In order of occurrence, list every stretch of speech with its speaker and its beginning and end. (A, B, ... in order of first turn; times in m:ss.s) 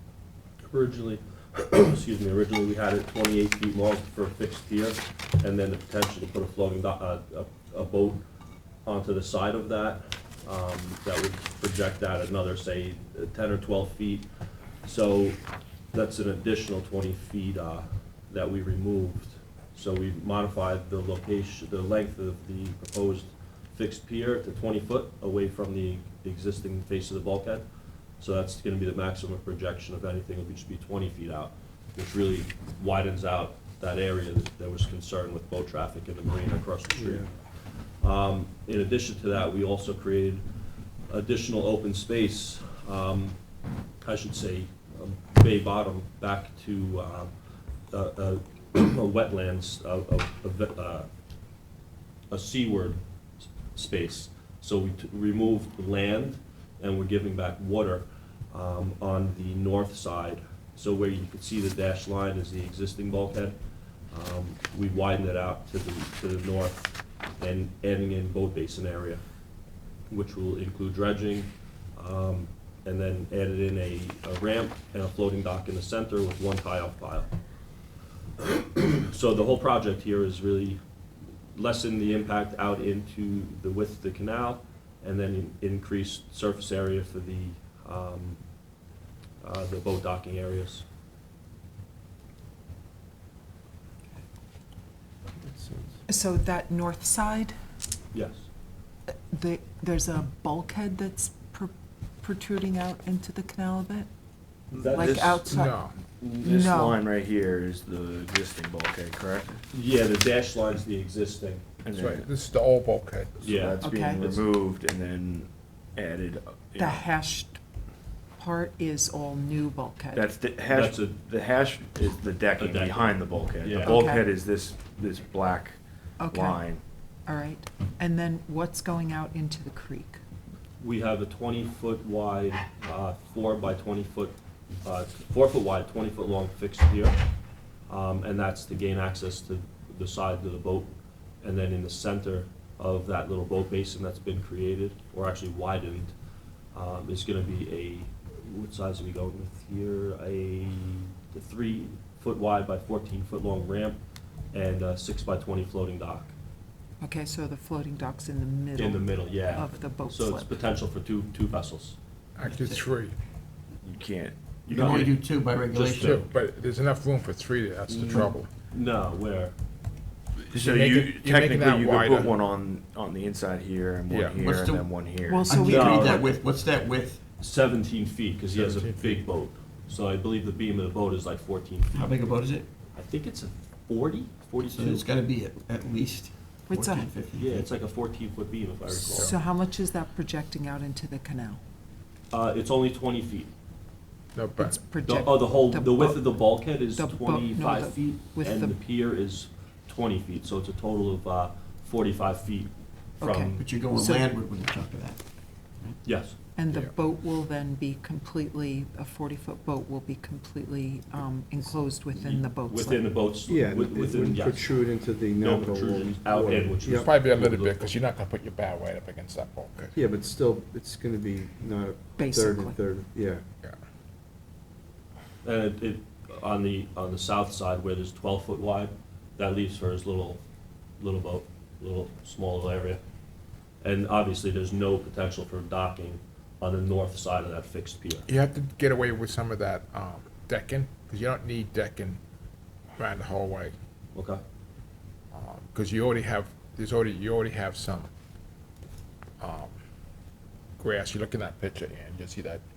0:00.6-0:08.2 A
0:08.8-0:14.2 A
0:14.8-0:15.4 A
0:15.9-0:27.6 A
0:28.2-0:37.3 A
0:37.0-0:37.3 B
0:37.9-0:40.4 A
0:41.1-0:43.4 A
0:44.0-0:47.3 A
0:47.9-0:51.1 A
0:52.3-0:53.0 A
0:53.7-1:03.6 A
1:04.1-1:09.2 A
1:10.1-1:17.3 A
1:18.8-1:20.8 A
1:21.5-1:28.4 A
1:29.4-1:30.8 A
1:35.4-1:36.0 B
1:36.1-1:37.5 C
1:38.1-1:38.5 A
1:39.3-1:44.1 C
1:44.7-1:45.4 A
1:44.8-1:47.0 C
1:45.0-1:45.4 D
1:45.4-1:46.0 E
1:46.2-1:49.6 D
1:49.7-1:51.6 A
1:51.8-1:52.2 D
1:51.9-1:53.4 E
1:53.4-1:53.8 A
1:53.4-1:57.0 D
1:53.8-1:54.4 C
1:56.8-1:57.6 C
1:58.4-2:00.3 C
2:00.1-2:05.8 D
2:00.6-2:01.1 A
2:02.6-2:04.0 A
2:03.8-2:04.2 C
2:06.2-2:06.7 C
2:06.3-2:06.8 D
2:07.2-2:10.2 C
2:10.8-2:17.2 A
2:17.9-2:26.1 A
2:26.7-2:34.0 A
2:34.5-2:36.3 A
2:37.0-2:40.6 C
2:38.8-2:42.0 A
2:42.4-2:43.2 E
2:42.4-2:42.8 F
2:43.8-2:44.3 D
2:44.7-2:45.2 A
2:44.7-2:46.2 F
2:45.7-2:46.2 A
2:46.0-2:48.5 E
2:47.9-2:49.5 A
2:50.5-2:55.4 D
2:50.5-2:52.3 E
2:54.1-2:54.4 E
2:54.3-2:57.2 F
2:55.2-2:56.4 C
2:55.6-2:56.2 A
2:57.4-3:02.0 A
2:58.5-2:59.2 E
3:01.9-3:02.7 F
3:03.0-3:05.0 A
3:04.7-3:07.7 F
3:06.7-3:07.1 C
3:07.4-3:09.3 A
3:08.9-3:11.6 C
3:12.3-3:13.5 A
3:14.3-3:14.8 E
3:14.6-3:18.8 C
3:15.0-3:23.6 A
3:23.2-3:24.3 C
3:23.5-3:25.2 F
3:26.0-3:26.4 A
3:26.6-3:33.2 C
3:32.1-3:34.7 A
3:33.5-3:37.1 B
3:35.4-3:37.9 A
3:36.8-3:39.9 E
3:39.9-3:43.4 B
3:42.2-3:42.8 C
3:45.4-3:50.4 A
3:51.0-3:53.0 A
3:53.8-3:58.2 A
3:58.3-4:02.2 E
4:03.0-4:03.7 E
4:04.1-4:04.4 A
4:05.3-4:08.1 E
4:09.4-4:09.8 E
4:10.8-4:12.6 E